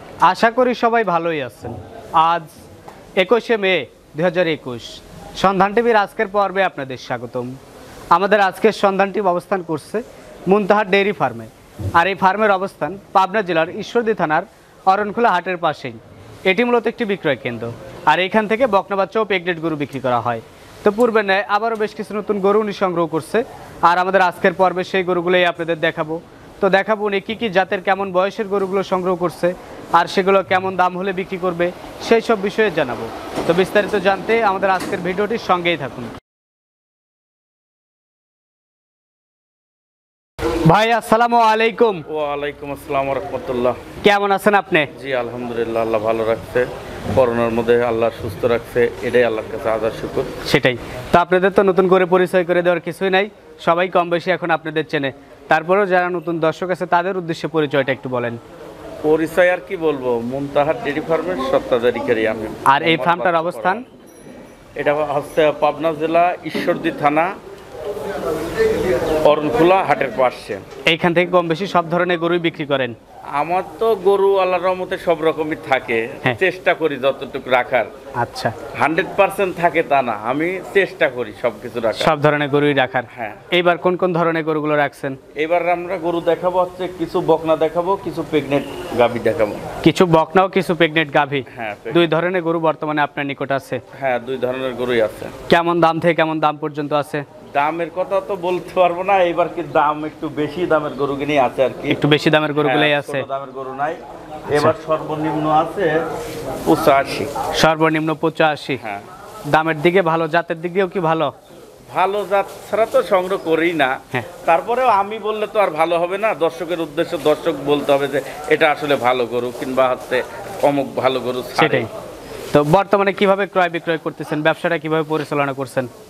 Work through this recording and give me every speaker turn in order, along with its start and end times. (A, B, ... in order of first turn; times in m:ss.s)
0:00.2-0:02.5 A
0:03.2-0:07.6 A
0:08.1-0:36.1 A
0:40.7-0:42.0 A
0:42.1-0:43.8 B
0:44.0-0:44.9 A
0:45.0-0:50.3 B
0:50.5-0:58.4 A
0:59.0-1:03.8 B
1:02.7-1:03.8 A
1:04.8-1:07.3 B
1:09.2-1:10.6 B
1:10.9-1:13.0 A
1:13.4-1:17.9 B
1:18.2-1:18.5 A
1:18.7-1:22.1 B
1:22.0-1:25.2 A
1:23.1-1:23.4 B
1:25.4-1:29.6 B
1:29.8-1:33.8 A
1:31.5-1:32.1 B
1:34.0-1:35.3 B
1:35.5-1:37.2 A
1:37.6-1:42.0 B
1:41.9-1:43.2 A
1:42.6-1:44.0 B
1:44.5-1:46.0 B
1:46.6-1:47.3 B
1:47.6-1:48.8 A
1:48.8-1:49.1 B
1:49.5-1:51.3 A
1:51.9-1:53.9 B
1:54.4-2:01.9 B
2:01.6-2:01.9 A
2:02.5-2:05.9 A